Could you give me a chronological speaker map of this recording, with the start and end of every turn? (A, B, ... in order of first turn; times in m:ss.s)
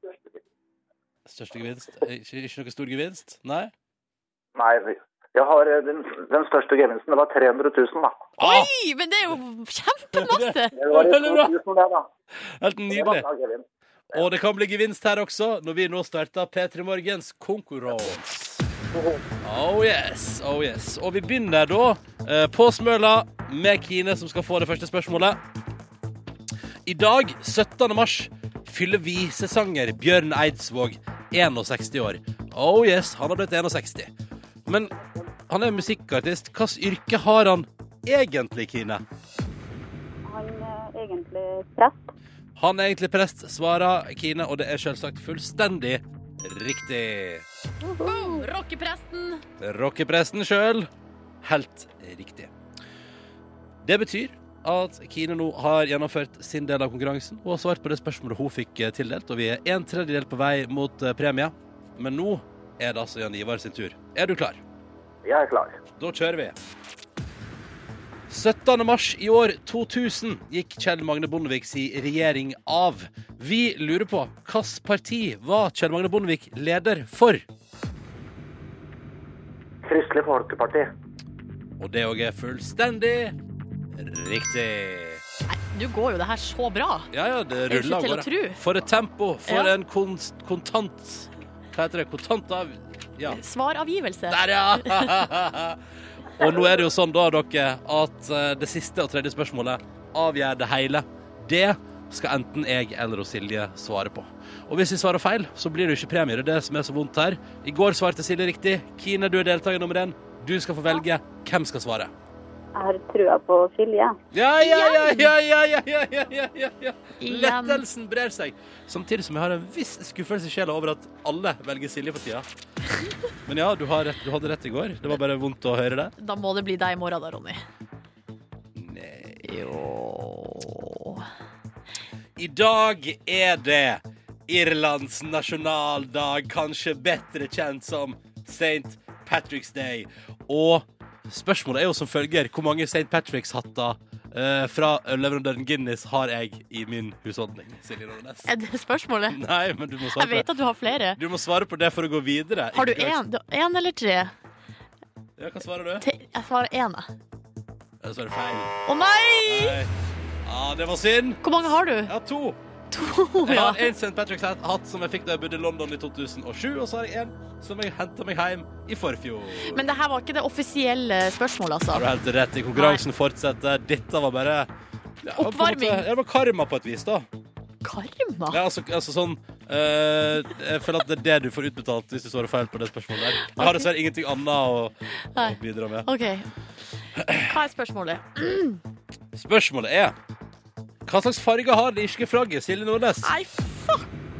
0:01.3-0:03.7 A
0:04.6-0:08.2 B
0:08.4-0:08.7 A
0:08.4-0:10.7 C
0:10.2-0:11.5 A
0:10.8-0:12.1 B
0:12.6-0:13.2 A
0:12.9-0:13.6 B
0:14.1-0:18.6 A
0:18.9-0:19.2 B
0:19.4-0:25.4 A
0:26.8-0:34.1 A
0:34.7-0:34.9 A
0:35.0-0:35.3 D
0:35.5-0:39.0 A
0:40.2-0:42.0 D
0:42.6-0:47.4 A
0:47.8-0:48.4 D
0:48.0-0:49.4 C
0:49.6-0:50.9 A
0:51.4-0:52.5 A
0:53.8-1:04.6 A
1:05.2-1:05.8 B
1:06.0-1:06.5 A
1:08.3-1:17.4 A
1:19.8-1:20.9 B
1:21.8-1:23.4 A
1:24.0-1:25.2 A
1:25.5-1:27.1 C
1:27.1-1:33.4 A
1:27.7-1:28.6 C
1:33.2-1:35.1 C
1:34.3-1:35.8 A
1:36.4-1:52.1 A
1:52.7-1:54.1 D
1:54.3-2:02.4 A
1:54.6-1:55.3 C
1:57.2-1:57.8 C
2:03.4-2:06.1 A
2:06.2-2:07.6 C
2:08.8-2:09.4 A
2:09.4-2:11.2 C
2:12.4-2:28.5 A
2:28.4-2:29.4 C
2:29.3-2:30.5 A
2:30.1-2:31.2 C
2:31.1-2:33.2 A
2:32.7-2:34.3 C
2:35.4-2:36.0 A
2:36.0-2:37.1 C
2:38.0-2:38.7 A
2:38.9-2:39.8 C
2:39.4-2:39.9 A
2:40.4-2:42.6 A
2:41.4-2:42.1 C
2:42.9-2:43.9 C
2:43.4-2:49.8 A
2:49.6-2:52.0 C
2:51.9-2:54.7 A
2:52.7-2:53.0 C
2:55.2-2:57.2 A
2:55.4-2:56.0 C
2:57.8-2:58.6 C
2:58.5-3:06.1 A
3:03.4-3:03.9 C
3:05.3-3:06.5 C
3:07.2-3:07.5 A
3:07.3-3:08.8 C
3:09.3-3:10.1 A
3:11.0-3:13.3 A
3:13.2-3:14.1 C